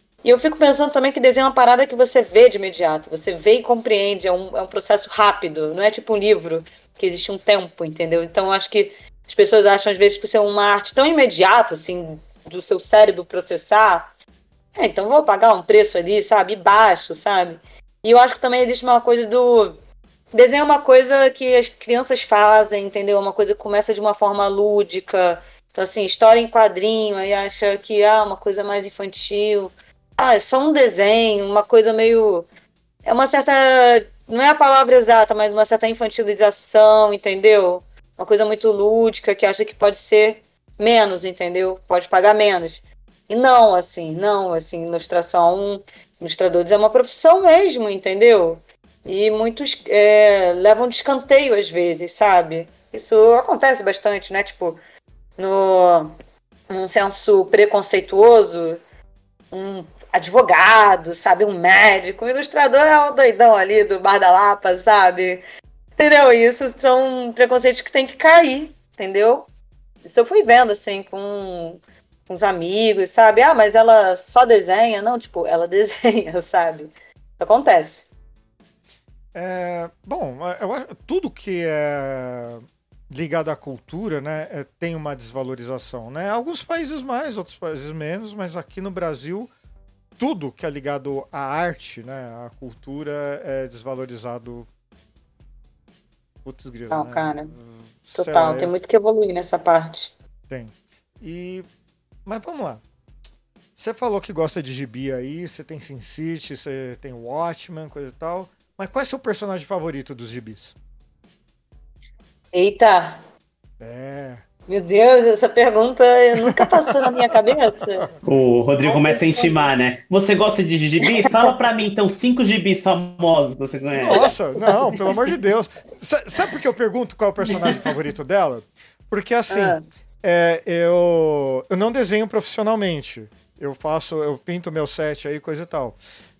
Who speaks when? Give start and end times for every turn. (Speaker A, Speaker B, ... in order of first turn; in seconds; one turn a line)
Speaker A: 0.2-14.1
Speaker A: 14.8-19.8
Speaker A: 20.3-32.5
Speaker A: 33.1-54.8
Speaker A: 55.4-56.1
Speaker A: 56.7-58.8
Speaker A: 59.5-65.4
Speaker A: 66.0-69.5
Speaker A: 70.0-78.1
Speaker B: 79.3-89.5
Speaker B: 90.2-94.7
Speaker B: 96.5-98.7
Speaker A: 96.9-97.5
Speaker A: 98.1-100.1
Speaker B: 100.5-101.7
Speaker B: 102.3-102.8
Speaker B: 103.8-110.7
Speaker A: 112.5-113.2
Speaker B: 113.8-114.4
Speaker A: 114.7-118.1
Speaker B: 116.5-117.6
Speaker C: 118.2-125.0
Speaker A: 118.8-119.7
Speaker B: 124.0-136.0
Speaker C: 127.5-127.9
Speaker A: 129.5-129.8